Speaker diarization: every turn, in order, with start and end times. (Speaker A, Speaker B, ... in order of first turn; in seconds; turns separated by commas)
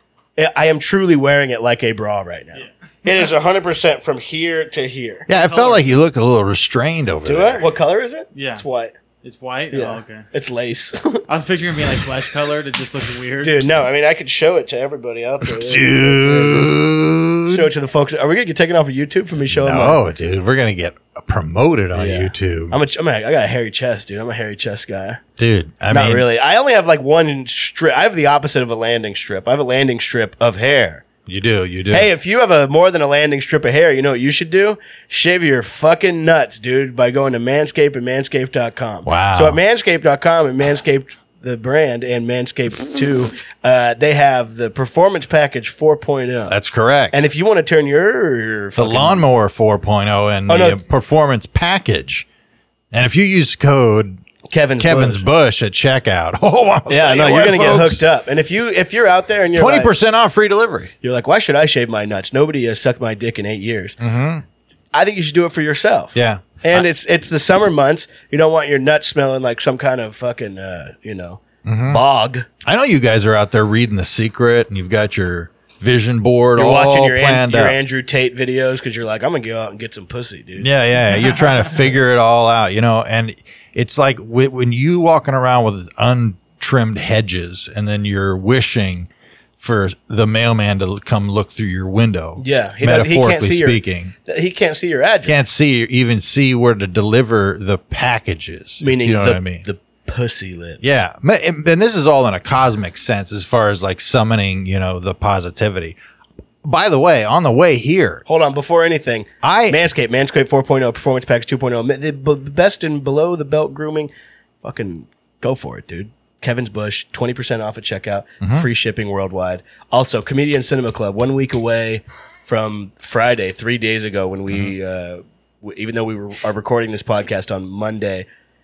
Speaker A: 0.4-5.3, Speaker B: 5.3-7.6, Speaker C: 5.3-5.8, Speaker A: 7.2-9.0, Speaker C: 8.3-8.6, Speaker C: 9.2-10.2, Speaker A: 9.7-11.2, Speaker C: 11.3-13.6, Speaker A: 13.4-16.7, Speaker B: 15.4-17.7, Speaker A: 17.5-20.0, Speaker B: 19.5-22.8, Speaker A: 21.9-25.2, Speaker B: 25.4-26.3, Speaker A: 25.9-31.1, Speaker B: 31.3-32.1, Speaker A: 31.9-46.5, Speaker B: 39.0-39.6, Speaker B: 46.5-47.3, Speaker A: 47.1-49.3, Speaker B: 48.8-52.3, Speaker A: 50.5-50.8, Speaker B: 52.9-54.2, Speaker A: 54.5-55.3, Speaker B: 54.8-58.0, Speaker A: 56.9-59.9, Speaker B: 59.6-60.9, Speaker A: 61.0-64.0, Speaker B: 64.0-64.4, Speaker A: 64.9-72.5, Speaker B: 66.2-66.9, Speaker B: 71.7-72.0, Speaker B: 72.6-77.8, Speaker A: 76.6-80.7, Speaker B: 80.6-94.1, Speaker A: 92.4-95.4, Speaker B: 95.3-99.7, Speaker A: 98.8-100.9, Speaker B: 100.8-106.0, Speaker B: 106.6-108.2, Speaker A: 108.3-114.1, Speaker B: 109.4-109.8, Speaker A: 114.6-128.3, Speaker B: 118.4-118.7